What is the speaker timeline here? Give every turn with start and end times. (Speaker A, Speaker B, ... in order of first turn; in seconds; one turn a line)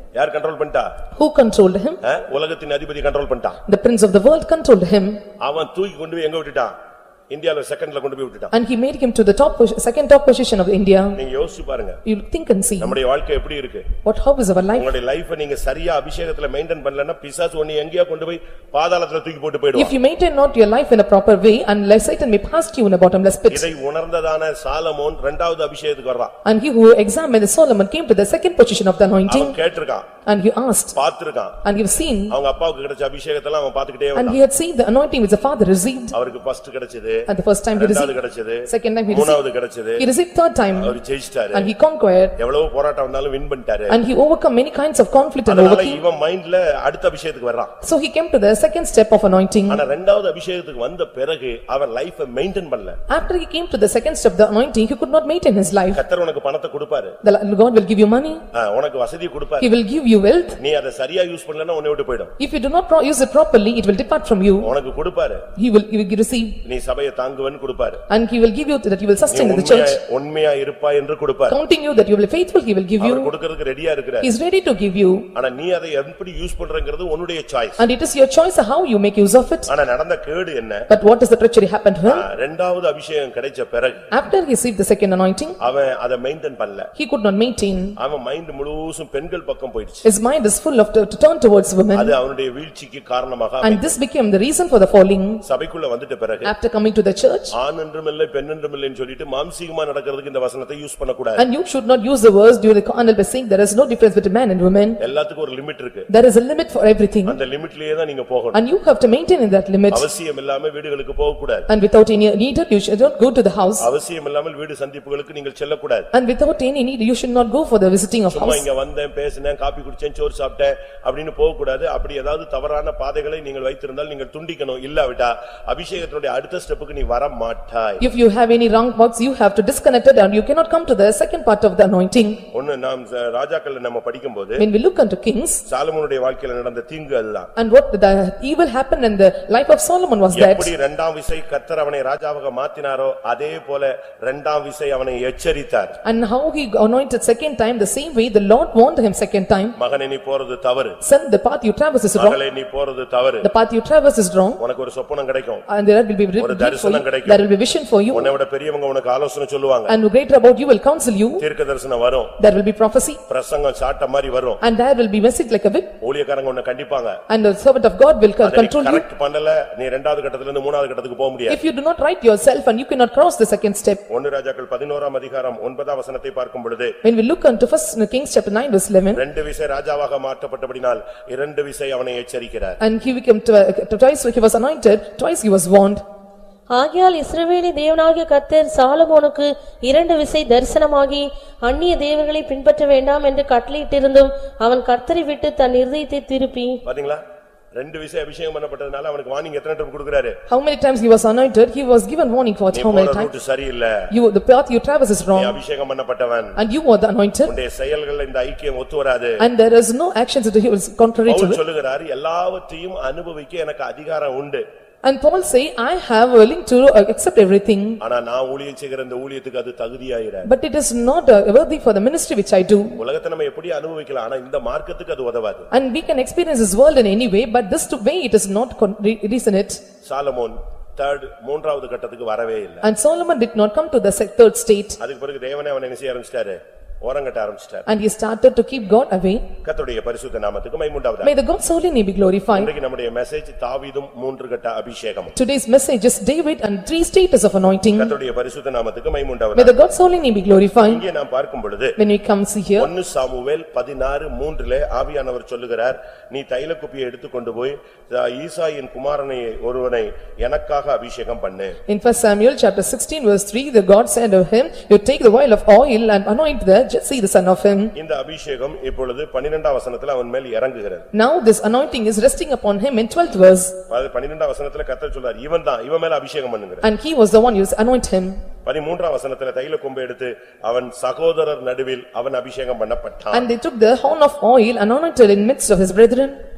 Speaker A: 0.1-0.9
Speaker B: 1.1-2.0
Speaker A: 2.0-3.6
Speaker B: 3.7-5.2
Speaker A: 5.4-6.7
Speaker A: 7.3-8.5
Speaker B: 8.5-11.2
Speaker A: 11.2-12.0
Speaker B: 12.1-13.0
Speaker A: 12.8-13.9
Speaker B: 14.0-14.9
Speaker A: 14.8-20.0
Speaker B: 19.8-23.7
Speaker A: 23.5-26.3
Speaker B: 26.4-29.6
Speaker A: 29.3-30.1
Speaker B: 30.2-30.9
Speaker A: 30.9-31.6
Speaker B: 31.6-32.4
Speaker A: 32.3-34.4
Speaker B: 34.2-36.1
Speaker A: 36.1-40.1
Speaker B: 37.3-38.2
Speaker B: 38.7-39.4
Speaker B: 40.0-41.0
Speaker A: 40.8-41.7
Speaker B: 41.5-42.4
Speaker A: 42.4-44.0
Speaker B: 43.9-46.0
Speaker A: 45.5-47.7
Speaker B: 47.8-49.8
Speaker A: 49.7-53.0
Speaker B: 53.1-56.0
Speaker A: 55.9-57.2
Speaker B: 57.2-58.4
Speaker A: 58.5-59.7
Speaker B: 59.6-60.6
Speaker A: 60.6-62.3
Speaker B: 62.4-64.7
Speaker A: 64.6-65.5
Speaker B: 65.6-66.6
Speaker A: 66.6-68.0
Speaker B: 68.1-70.0
Speaker A: 69.3-71.6
Speaker B: 71.5-73.3
Speaker A: 73.0-74.3
Speaker B: 74.2-75.3
Speaker A: 75.3-77.8
Speaker B: 77.8-79.7
Speaker A: 79.7-80.9
Speaker B: 80.9-82.2
Speaker A: 82.1-84.1
Speaker B: 84.1-85.6
Speaker A: 85.6-86.9
Speaker B: 87.0-88.0
Speaker A: 88.0-90.1
Speaker B: 90.0-92.2
Speaker A: 92.0-93.9
Speaker B: 93.6-95.4
Speaker A: 95.4-96.5
Speaker B: 96.4-97.5
Speaker A: 97.5-101.5
Speaker B: 101.4-105.0
Speaker A: 105.0-106.1
Speaker B: 106.1-107.4
Speaker A: 107.3-108.6
Speaker B: 108.5-110.1
Speaker A: 109.9-111.7
Speaker B: 111.7-113.9
Speaker A: 113.8-116.1
Speaker B: 116.1-118.7
Speaker A: 118.3-128.0
Speaker B: 128.0-132.4
Speaker A: 132.5-134.6
Speaker B: 134.6-135.6
Speaker A: 135.7-137.5
Speaker B: 137.6-140.7
Speaker A: 140.3-146.0
Speaker B: 146.0-149.8
Speaker A: 149.8-151.0
Speaker B: 151.0-152.4
Speaker A: 152.2-153.5
Speaker B: 153.4-154.6
Speaker A: 154.6-155.7
Speaker B: 155.7-158.3
Speaker A: 156.4-157.4
Speaker A: 158.1-159.9
Speaker B: 159.9-161.4
Speaker A: 161.4-162.3
Speaker B: 162.4-163.2
Speaker A: 163.3-164.6
Speaker B: 164.6-165.9
Speaker A: 166.0-167.2
Speaker B: 167.3-169.0
Speaker A: 168.4-171.6
Speaker B: 171.5-174.0
Speaker A: 174.1-176.9
Speaker B: 177.0-179.2
Speaker A: 179.2-182.8
Speaker B: 182.8-186.0
Speaker C: 186.7-196.8
Speaker A: 196.8-197.2
Speaker A: 197.8-200.4
Speaker B: 200.5-203.3
Speaker A: 202.7-204.1
Speaker B: 204.1-205.6
Speaker A: 205.3-206.6
Speaker B: 206.6-207.5
Speaker A: 207.5-209.4
Speaker B: 209.4-211.6
Speaker A: 211.3-214.6
Speaker B: 215.0-218.0
Speaker A: 218.0-220.5
Speaker B: 220.4-223.0
Speaker A: 223.0-225.7
Speaker B: 225.7-229.8
Speaker A: 230.0-232.8
Speaker B: 232.8-235.0
Speaker A: 235.0-237.9
Speaker B: 237.9-239.5
Speaker A: 239.6-241.3
Speaker B: 241.2-242.7
Speaker A: 242.5-245.3
Speaker B: 245.3-248.1
Speaker A: 247.9-249.8
Speaker B: 249.6-251.0
Speaker A: 250.8-252.0
Speaker B: 252.0-252.9
Speaker A: 252.8-261.8
Speaker B: 261.9-267.9
Speaker A: 267.9-271.1
Speaker B: 271.1-273.8
Speaker A: 273.9-276.9
Speaker B: 276.8-278.4
Speaker A: 278.6-283.5
Speaker B: 283.3-286.4